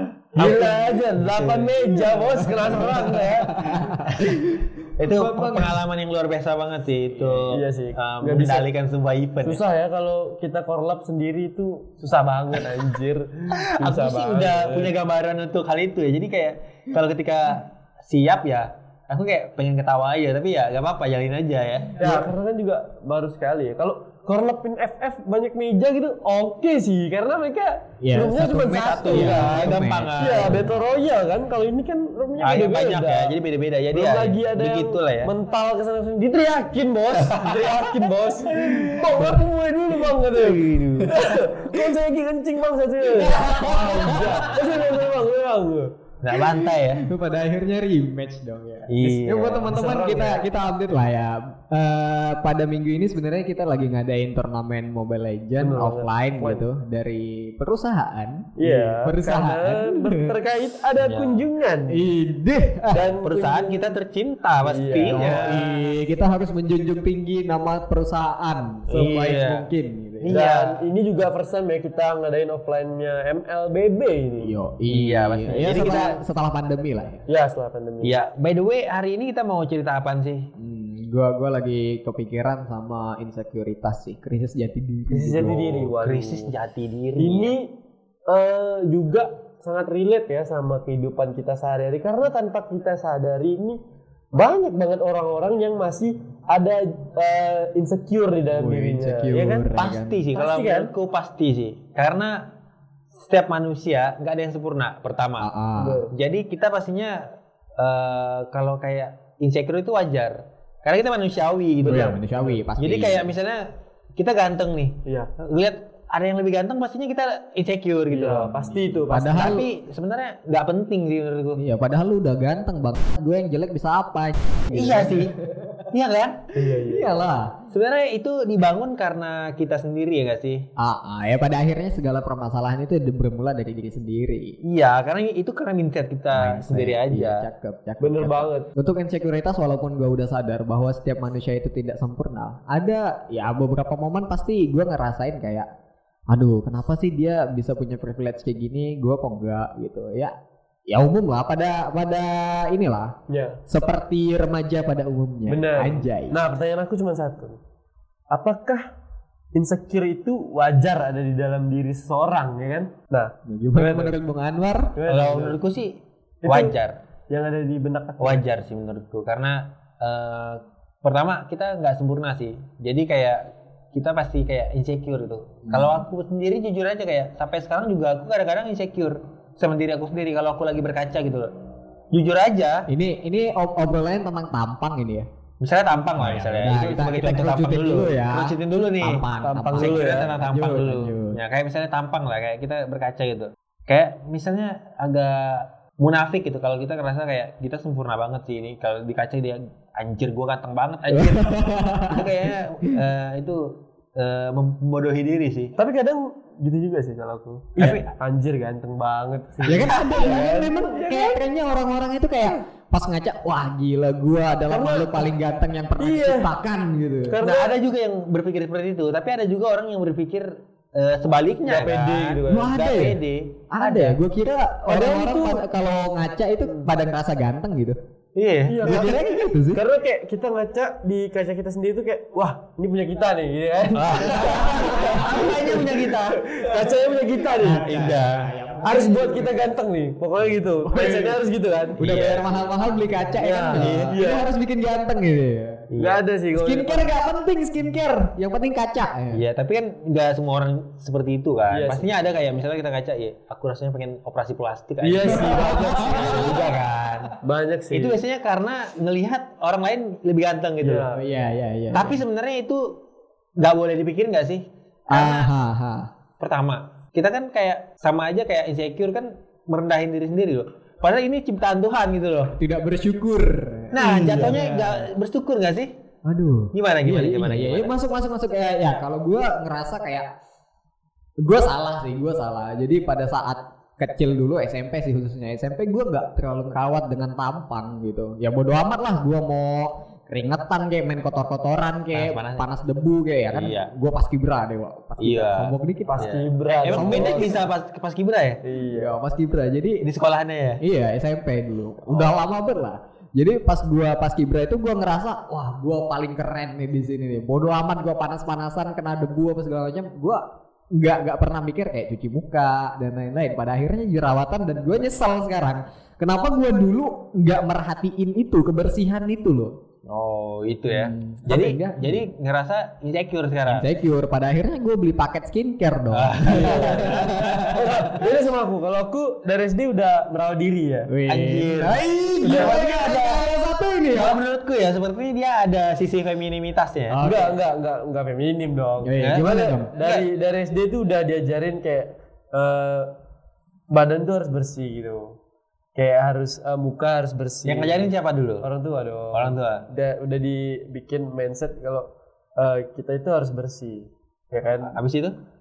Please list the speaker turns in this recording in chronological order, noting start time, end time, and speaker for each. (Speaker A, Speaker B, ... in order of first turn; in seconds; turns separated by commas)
Speaker A: 0.3-3.6, Speaker B: 0.3-1.7, Speaker C: 2.3-5.8, Speaker B: 5.0-9.6, Speaker A: 7.5-8.7, Speaker A: 9.4-14.9, Speaker B: 13.5-22.3, Speaker A: 22.0-33.4, Speaker C: 28.0-30.8, Speaker B: 28.8-30.7, Speaker B: 32.4-35.3, Speaker A: 33.9-45.9, Speaker B: 37.1-38.1, Speaker C: 38.9-39.4, Speaker B: 40.3-41.2, Speaker C: 41.2-41.5, Speaker C: 43.1-44.6, Speaker B: 46.2-47.1, Speaker C: 46.3-60.3, Speaker B: 48.9-49.7, Speaker A: 49.0-50.4, Speaker A: 55.6-56.6, Speaker A: 58.6-62.1, Speaker B: 61.0-61.5, Speaker C: 61.9-63.1, Speaker A: 62.9-63.9, Speaker B: 63.2-65.7, Speaker A: 64.6-65.7, Speaker C: 65.0-70.4, Speaker B: 68.9-69.7, Speaker B: 70.2-70.8, Speaker A: 70.3-74.5, Speaker C: 74.4-77.2, Speaker B: 74.9-76.2, Speaker A: 75.7-76.0, Speaker A: 77.3-78.2, Speaker B: 78.0-80.5, Speaker C: 80.6-85.9, Speaker A: 85.1-86.5, Speaker B: 86.0-87.6, Speaker A: 87.2-87.7, Speaker A: 88.3-93.8, Speaker A: 94.3-99.7, Speaker C: 98.6-100.2, Speaker B: 99.8-102.5, Speaker A: 100.3-100.9, Speaker B: 103.2-105.5, Speaker C: 105.4-106.0, Speaker A: 105.8-106.1, Speaker B: 106.1-112.2, Speaker C: 111.8-113.3, Speaker A: 111.9-112.5, Speaker B: 112.8-113.7, Speaker B: 114.2-121.6, Speaker A: 118.1-119.6, Speaker C: 119.1-119.7, Speaker C: 121.6-125.3, Speaker B: 124.7-125.3, Speaker B: 125.9-126.5, Speaker A: 126.5-127.2, Speaker C: 126.8-127.6, Speaker B: 127.7-130.7, Speaker C: 130.8-134.6, Speaker B: 134.6-137.4, Speaker C: 136.3-145.7, Speaker A: 138.0-138.7, Speaker C: 146.3-150.3, Speaker C: 150.9-153.1, Speaker A: 153.3-154.0, Speaker C: 153.7-156.4, Speaker A: 155.5-157.6, Speaker A: 158.3-158.8, Speaker A: 159.5-164.2, Speaker C: 163.4-164.9, Speaker A: 164.9-165.6, Speaker B: 165.1-167.0, Speaker A: 166.4-166.8, Speaker A: 167.3-168.4, Speaker B: 168.2-181.5, Speaker C: 175.7-176.0, Speaker B: 182.1-182.9, Speaker C: 182.9-185.3, Speaker B: 185.6-205.8, Speaker C: 186.2-191.4, Speaker A: 189.4-190.3, Speaker C: 201.1-203.0, Speaker A: 205.8-211.4, Speaker B: 207.8-208.1, Speaker C: 209.6-217.3, Speaker B: 209.7-210.4, Speaker A: 214.7-215.3, Speaker A: 216.0-216.5, Speaker A: 217.3-217.7, Speaker B: 217.4-224.2, Speaker A: 221.7-222.7, Speaker C: 222.5-228.0, Speaker A: 224.8-225.6, Speaker B: 228.3-229.2, Speaker A: 228.7-237.9, Speaker C: 228.8-229.8, Speaker B: 233.9-236.9, Speaker C: 234.5-235.4, Speaker C: 237.6-239.6, Speaker B: 237.8-238.5, Speaker A: 238.8-242.0, Speaker C: 240.9-241.3, Speaker B: 242.0-242.7, Speaker C: 242.0-245.9, Speaker A: 243.4-244.5, Speaker B: 243.7-244.2, Speaker B: 245.9-246.2, Speaker A: 246.0-247.1, Speaker C: 246.5-249.4, Speaker B: 249.3-257.3, Speaker A: 251.7-252.1, Speaker A: 255.0-256.8, Speaker C: 255.3-256.6, Speaker A: 257.4-258.2, Speaker B: 257.9-261.1, Speaker A: 260.8-261.2, Speaker C: 261.1-262.2, Speaker B: 261.9-263.0, Speaker B: 263.6-265.5, Speaker C: 265.1-266.1, Speaker B: 266.4-272.6, Speaker C: 272.6-275.1, Speaker B: 273.9-275.9, Speaker C: 276.2-280.4, Speaker B: 276.7-277.9, Speaker C: 281.4-296.3, Speaker B: 292.1-292.6, Speaker B: 293.5-293.9, Speaker B: 295.2-298.6, Speaker A: 296.1-297.6, Speaker C: 296.9-297.6, Speaker A: 298.6-299.2, Speaker C: 298.9-300.1, Speaker B: 300.0-300.8, Speaker C: 300.8-319.8, Speaker B: 302.1-302.4, Speaker B: 320.1-323.9, Speaker C: 320.9-322.2, Speaker C: 323.7-328.1, Speaker B: 326.1-328.2, Speaker A: 326.4-331.1, Speaker C: 331.1-334.4, Speaker B: 331.3-333.4, Speaker A: 332.4-332.9, Speaker B: 334.1-337.2, Speaker C: 337.1-337.5, Speaker A: 337.2-343.1, Speaker C: 339.0-339.9, Speaker B: 339.2-340.3, Speaker A: 343.9-345.4, Speaker A: 345.9-354.9, Speaker B: 347.6-348.6, Speaker B: 349.3-349.9, Speaker B: 354.8-355.4